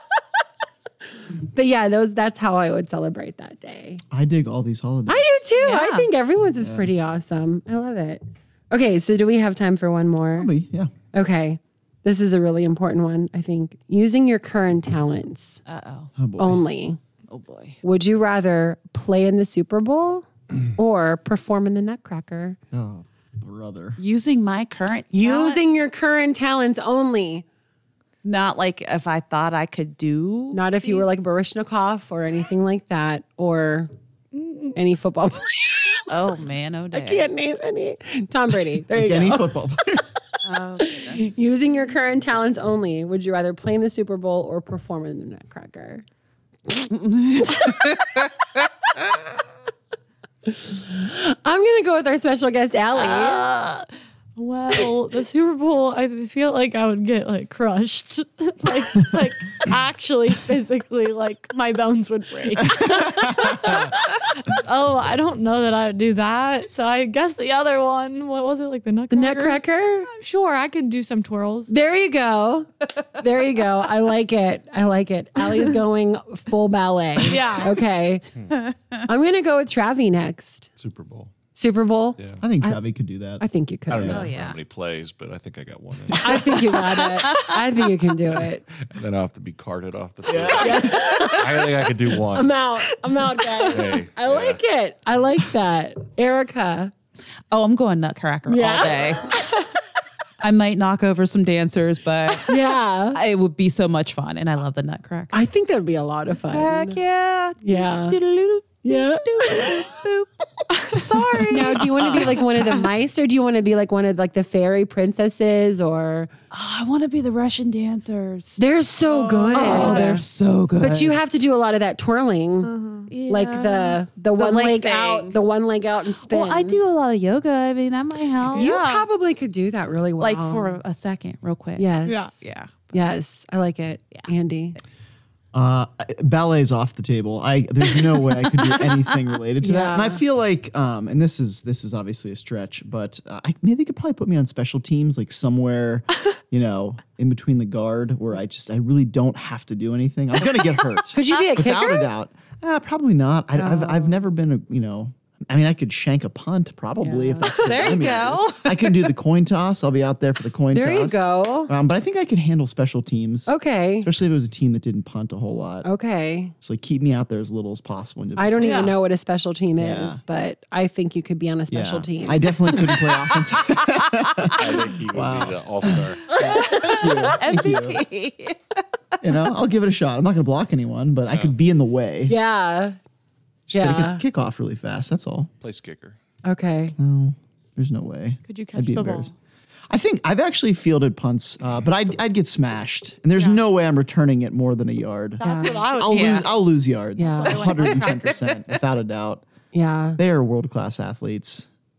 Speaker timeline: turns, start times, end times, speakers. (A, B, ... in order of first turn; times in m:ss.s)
0:01.5-0:04.0 A
0:04.1-0:05.3 B
0:05.1-0:10.5 A
0:05.6-0:06.1 C
0:06.6-0:06.9 B
0:10.4-0:10.9 B
0:11.1-0:15.6 A
0:15.7-0:16.1 C
0:16.2-0:16.6 B
0:16.4-0:17.0 A
0:17.3-0:17.8 C
0:17.8-0:22.6 A
0:22.7-0:24.0 B
0:24.0-0:25.8 C
0:25.1-0:27.4 A
0:28.2-0:30.6 C
0:30.5-0:33.9 A
0:34.3-0:34.8 D
0:34.7-0:36.1 A
0:36.1-0:37.2 C
0:36.9-0:39.6 A
0:38.9-0:40.0 B
0:40.4-0:41.4 C
0:40.8-0:46.0 A
0:46.9-0:48.2 C
0:47.4-0:47.8 A
0:50.6-0:53.5 A
0:53.0-1:11.7 D
1:02.9-1:03.8 B
1:09.1-1:10.1 A
1:11.7-1:18.3 A
1:17.2-1:17.8 D
1:18.5-1:19.0 C
1:19.1-1:20.7 A
1:20.8-1:21.3 E
1:21.5-1:22.8 A
1:22.4-1:23.4 B
1:23.4-1:24.3 A
1:23.9-1:26.8 E
1:24.0-1:24.2 B
1:24.0-1:24.6 C
1:26.2-1:28.6 A
1:26.7-1:27.6 C
1:28.8-1:32.6 E
1:30.3-1:30.9 B
1:30.5-1:36.9 A
1:33.7-1:34.6 E
1:37.5-1:39.3 C
1:38.5-1:39.4 A
1:40.4-1:45.4 C
1:42.4-1:43.2 A
1:45.3-1:47.0 A
1:46.5-1:52.0 C
1:47.6-1:48.2 A
1:48.8-1:49.9 A
1:51.4-1:56.3 A
1:51.9-1:52.5 B
1:56.5-1:58.6 C
1:58.6-2:00.2 A
1:59.1-2:00.2 D
1:59.5-2:01.0 C
2:00.8-2:02.7 A
2:00.8-2:01.1 B
2:02.6-2:03.1 D
2:03.1-2:05.4 C
2:03.3-2:06.8 A
2:06.3-2:08.8 C
2:08.5-2:09.1 D
2:08.5-2:10.8 A
2:10.2-2:12.9 C
2:11.8-2:12.4 A
2:12.0-2:12.3 D
2:12.9-2:14.8 A
2:15.5-2:45.9 B
2:19.6-2:20.2 A
2:31.0-2:32.1 A
2:33.6-2:34.2 A
2:37.3-2:39.0 C
2:37.4-2:38.0 A
2:40.7-2:41.7 A
2:43.5-2:44.1 A
2:45.8-2:46.5 A
2:46.6-2:48.9 B
2:48.4-2:53.4 A
2:48.6-2:48.9 D
2:49.8-2:50.2 B
2:51.7-2:55.6 B
2:54.5-2:56.3 E
2:56.4-2:57.2 A
2:56.5-2:58.8 C
2:56.7-2:58.0 B
2:59.2-3:02.4 B
3:01.3-3:01.5 E
3:02.3-3:03.0 A
3:03.7-3:05.5 B
3:03.7-3:04.2 A
3:05.6-3:06.2 E
3:06.4-3:06.9 A
3:07.0-3:09.3 B
3:08.4-3:09.3 D
3:09.9-3:19.4 B
3:15.4-3:16.6 D
3:15.4-3:15.9 A
3:16.1-3:16.4 C
3:17.2-3:17.9 A
3:17.2-3:18.3 D
3:19.7-3:20.2 A
3:20.2-3:21.7 B